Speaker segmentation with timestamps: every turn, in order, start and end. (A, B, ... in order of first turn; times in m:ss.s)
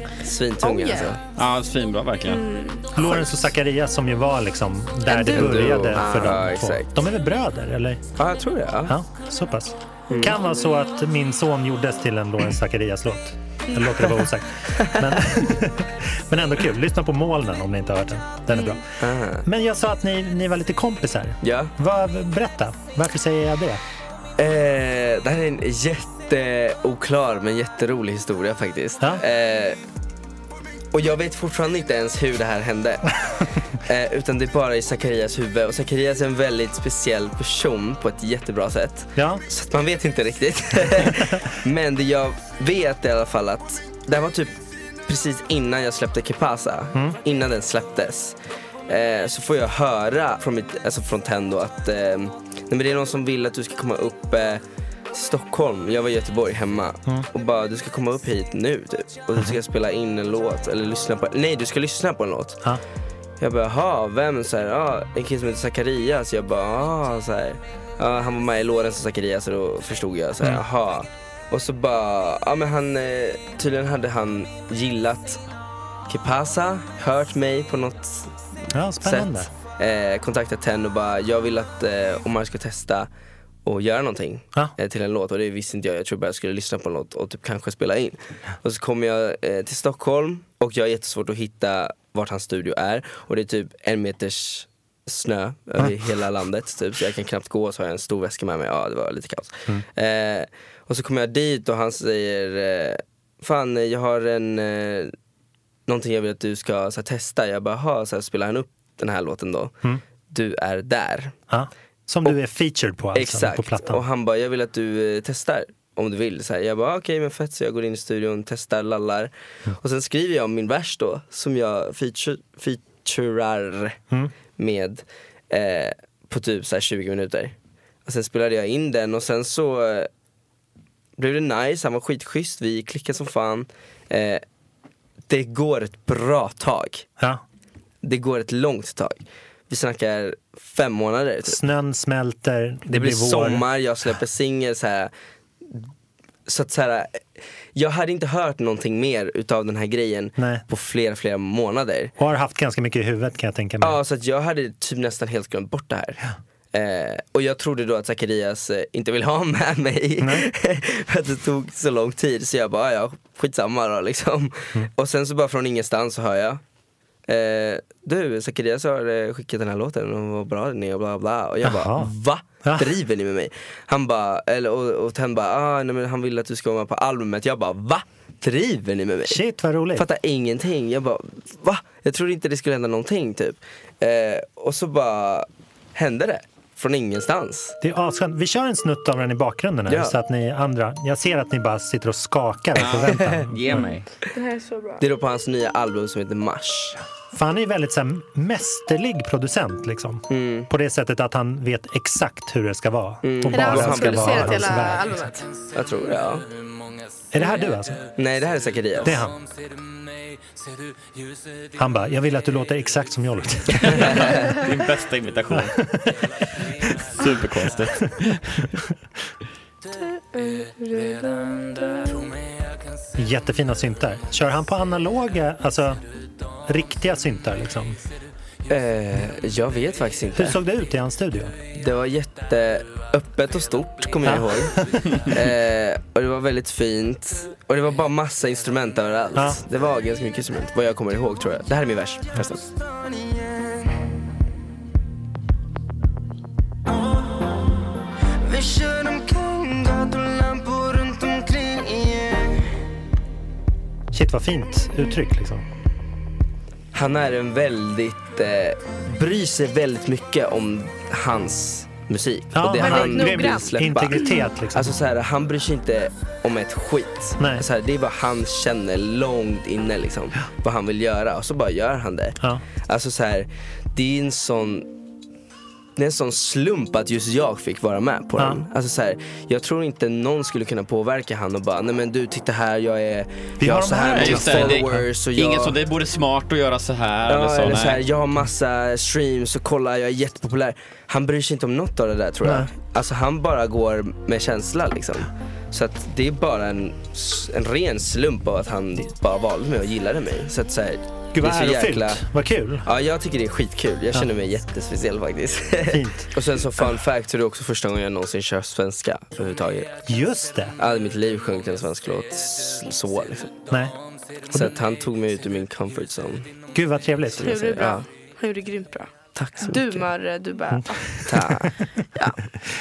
0:00.2-0:01.2 A
0:00.6-0:01.2 B
0:01.4-0:02.4 C
0:02.2-0:03.3 B
0:02.9-0:08.0 D
0:05.1-0:06.5 B
0:05.3-0:07.0 A
0:08.2-0:08.9 A
0:08.9-0:18.8 D
0:10.1-0:10.4 A
0:10.2-0:10.4 B
0:13.7-0:14.0 B
0:18.5-0:18.8 B
0:19.0-0:19.4 A
0:19.4-0:23.8 D
0:21.4-0:21.7 A
0:24.4-0:29.8 A
0:30.9-0:33.1 A
0:33.8-0:48.4 A
0:39.2-0:39.4 D
0:48.9-1:02.6 A
1:03.4-1:15.4 A
1:16.1-1:18.4 A
1:18.7-1:19.5 D
1:19.0-1:23.1 A
1:23.6-1:45.1 A
1:45.9-1:49.7 A
1:50.3-1:51.4 A
1:51.5-1:54.0 D
1:53.1-2:04.0 A
2:04.6-2:10.1 A
2:11.2-2:14.4 A
2:15.3-2:17.0 A
2:18.0-2:21.6 A
2:21.5-2:23.6 D
2:22.9-2:25.1 A
2:26.5-2:27.2 A
2:27.7-2:32.1 A
2:30.4-2:30.6 D
2:32.2-2:34.0 D
2:33.8-2:36.2 A
2:36.7-2:46.6 A
2:40.2-2:40.5 D
2:47.3-2:59.4 A
2:51.6-2:52.1 D
2:52.6-2:52.9 D
2:59.3-3:00.0 D
2:59.9-3:07.8 A
3:07.8-3:13.8 D
3:09.9-3:10.1 A
3:12.8-3:14.0 C
3:12.8-3:13.4 A
3:14.3-3:15.0 B
3:15.0-3:17.0 A
3:17.3-3:25.1 D
3:20.3-3:20.7 A
3:23.2-3:24.7 A
3:23.5-3:25.5 B
3:25.7-3:26.4 A
3:27.3-3:28.0 D
3:27.4-3:27.7 B
3:28.1-3:29.3 A
3:29.0-3:29.4 D
3:31.8-3:34.4 D
3:33.9-3:36.0 C
3:34.0-3:34.4 A
3:35.7-3:36.3 D
3:37.0-3:38.7 C
3:40.0-3:42.1 B
3:43.2-3:46.0 D
3:46.7-3:48.0 D
3:48.7-3:50.6 A
3:50.4-3:51.5 D
3:51.7-4:02.6 A
3:54.2-3:55.3 D
3:59.4-3:59.6 D
4:02.8-4:03.7 E
4:06.9-4:07.4 E
4:08.4-4:12.6 E
4:14.1-4:15.6 D
4:16.9-4:34.9 A
4:22.5-4:24.9 D
4:22.8-4:24.4 B
4:27.4-4:27.6 D
4:36.0-4:45.8 A
4:43.6-4:45.0 D
4:44.1-4:48.0 C
4:47.3-5:02.2 A
4:52.4-4:52.7 D
5:01.3-5:02.8 D
5:02.8-5:10.0 A
5:05.9-5:06.3 D
5:10.0-5:10.8 D
5:10.8-5:13.6 A
5:13.7-5:13.9 D
5:14.5-5:16.5 A
5:16.7-5:17.8 D
5:17.3-5:18.0 A
5:17.4-5:19.1 B
5:19.3-5:20.0 A
5:19.6-5:21.2 B
5:21.2-5:21.7 A